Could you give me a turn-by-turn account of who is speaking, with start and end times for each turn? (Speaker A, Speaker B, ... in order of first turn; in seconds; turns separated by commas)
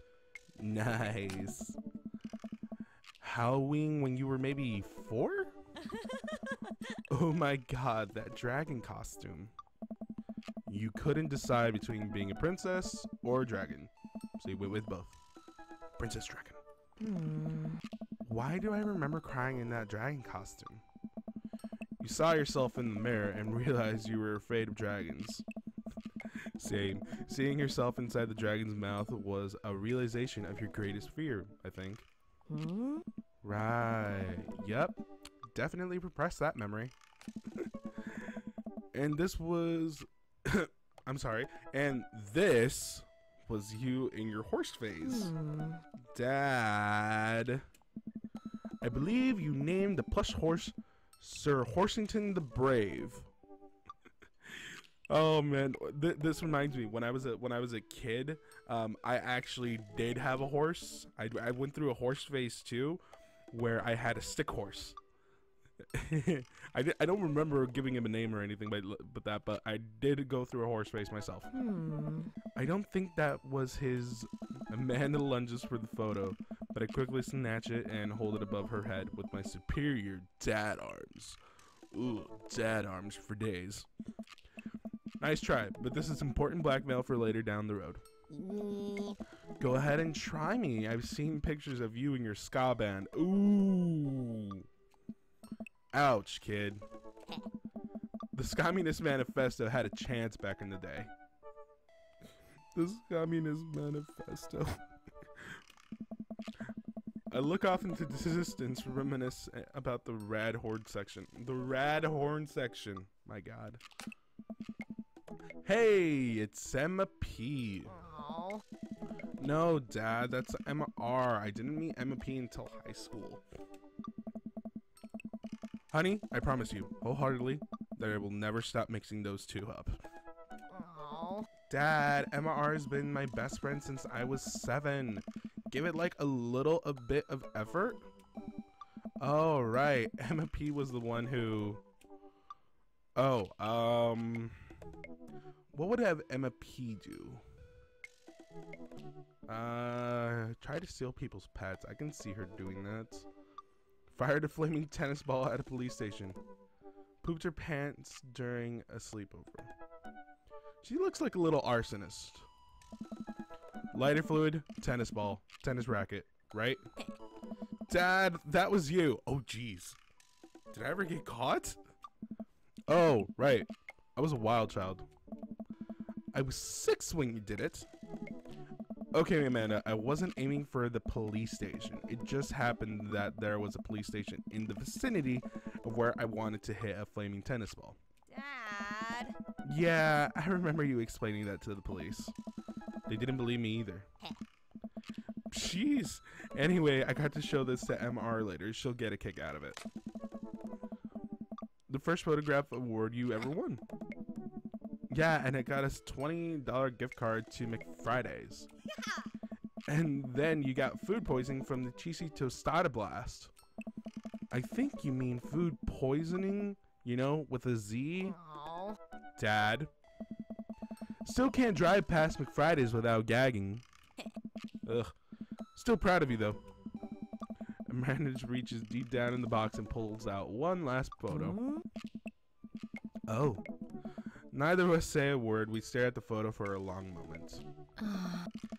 Speaker A: 0.6-1.8, Speaker A: 3.2-5.5, Speaker A: 7.1-9.5, Speaker A: 10.7-15.2, Speaker A: 16.0-16.6, Speaker B: 17.0-17.8, Speaker A: 18.2-20.8, Speaker A: 22.0-25.4, Speaker A: 26.3-32.1, Speaker B: 32.5-33.0, Speaker A: 33.4-35.0, Speaker A: 35.5-36.9, Speaker A: 37.6-38.4, Speaker A: 38.9-45.3, Speaker B: 45.0-45.8, Speaker A: 46.1-47.6, Speaker A: 48.8-53.3, Speaker A: 54.6-63.0, Speaker A: 63.5-65.0, Speaker A: 65.9-71.5, Speaker B: 71.5-72.3, Speaker A: 72.5-81.4, Speaker A: 81.9-83.9, Speaker A: 85.2-88.0, Speaker B: 88.3-89.2, Speaker A: 89.6-94.6, Speaker A: 95.9-96.8, Speaker A: 98.3-101.1, Speaker A: 102.7-104.8, Speaker A: 107.3-113.8, Speaker A: 115.6-118.0, Speaker B: 118.0-118.6, Speaker A: 119.4-123.4, Speaker A: 125.9-130.0, Speaker B: 130.7-131.5, Speaker A: 131.7-138.1, Speaker A: 139.2-141.8, Speaker A: 143.2-144.6, Speaker A: 145.7-147.4, Speaker A: 149.5-153.3, Speaker A: 154.1-156.4, Speaker A: 157.2-159.7, Speaker A: 160.8-162.5, Speaker A: 163.9-166.8, Speaker A: 167.9-170.0, Speaker A: 170.7-171.8, Speaker A: 172.9-175.1, Speaker A: 176.3-177.9, Speaker A: 179.1-188.0, Speaker B: 188.3-189.4, Speaker A: 189.6-192.3, Speaker A: 193.1-194.1, Speaker A: 195.5-199.8, Speaker A: 201.9-203.8, Speaker A: 205.1-208.7, Speaker A: 209.9-213.5, Speaker A: 214.5-218.4, Speaker B: 218.4-219.0, Speaker A: 219.4-219.9, Speaker A: 221.2-223.8, Speaker A: 224.8-225.1, Speaker A: 225.8-226.6, Speaker A: 227.9-231.6, Speaker B: 231.3-231.8, Speaker A: 233.3-233.6, Speaker A: 234.5-237.6, Speaker B: 238.0-238.5